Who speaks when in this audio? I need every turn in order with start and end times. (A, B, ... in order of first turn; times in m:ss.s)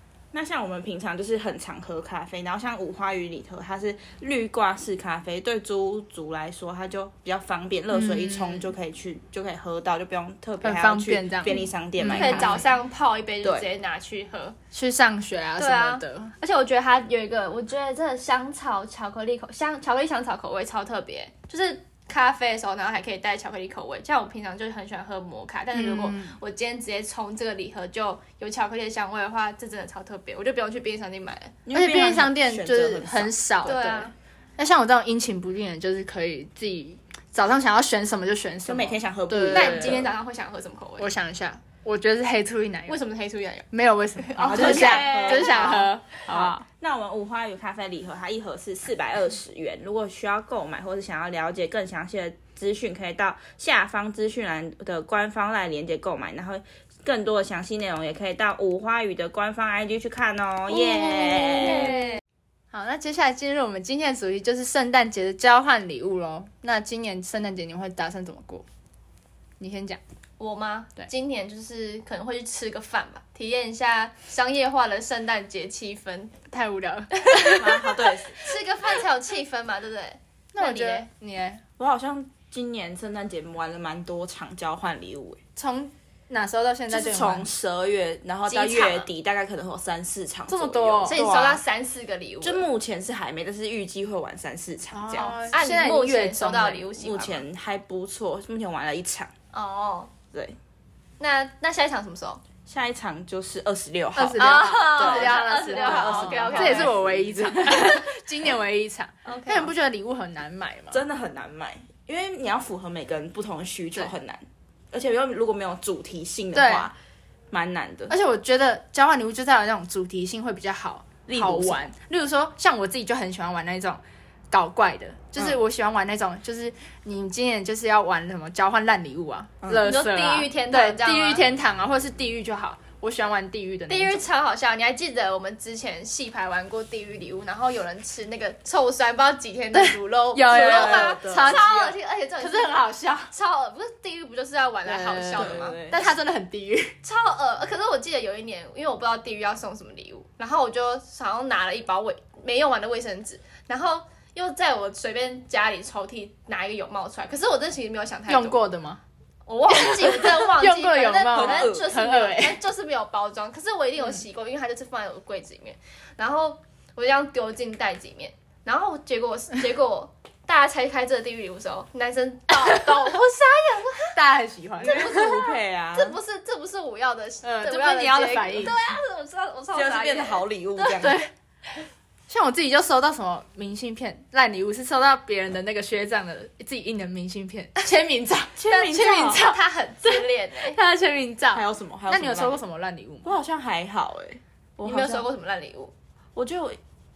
0:00.3-0:12.6 A
0:07.9-0:08.7 B
0:10.6-0:12.6 B
0:12.1-0:14.6 C
0:13.4-0:13.7 A
0:14.7-0:16.3 B
0:15.6-0:31.6 C
0:25.7-0:26.4 B
0:31.6-0:34.0 A
0:31.7-0:40.1 B
0:33.6-0:34.1 C
0:38.6-0:40.1 A
0:39.5-0:41.1 C
0:41.0-0:43.0 B
0:42.9-0:43.7 C
0:43.7-0:46.6 B
0:44.2-0:45.9 C
0:44.4-1:02.0 A
1:00.9-1:02.2 C
1:01.6-1:02.1 B
1:02.7-1:08.6 B
1:09.6-1:10.0 B
1:10.4-1:16.3 C
1:16.5-1:17.9 B
1:17.6-1:18.4 A
1:18.4-1:21.1 C
1:20.5-1:21.6 B
1:21.8-1:25.4 A
1:25.6-1:27.5 B
1:26.9-1:31.6 A
1:28.5-1:29.1 C
1:30.5-1:31.2 B
1:31.0-1:32.6 C
1:32.4-1:35.4 A
1:34.9-1:36.8 B
1:35.2-1:37.4 C
1:37.0-1:39.3 A
1:39.5-1:40.1 C
1:40.3-1:40.6 A
1:41.2-1:42.4 C
1:42.6-1:47.9 A
1:44.1-1:51.0 B
1:44.4-1:47.0 C
1:49.2-1:49.7 C
1:50.9-1:57.0 A
1:56.5-1:56.9 B
1:57.5-1:58.1 A
1:58.1-2:14.2 B
2:01.3-2:01.8 A
2:09.6-2:09.9 A
2:09.8-2:11.4 C
2:13.9-2:22.8 C
2:19.7-2:23.3 B
2:20.5-2:21.6 A
2:23.3-2:25.8 C
2:24.8-2:26.9 B
2:25.3-2:26.1 A
2:27.0-2:38.6 C
2:38.3-2:39.0 B
2:39.5-2:54.2 C
2:39.7-2:42.6 B
2:41.3-2:41.9 A
2:52.5-2:53.1 B
2:54.1-2:55.3 B
2:54.8-2:56.2 A
2:54.8-3:01.1 C
2:57.4-2:58.7 B
2:59.7-3:01.2 A
3:01.0-3:01.3 B
3:02.3-3:13.3 B
3:08.6-3:09.4 A
3:08.7-3:10.8 C
3:11.5-3:12.6 A
3:13.2-3:15.3 A
3:14.8-3:15.9 C
3:16.3-3:16.8 A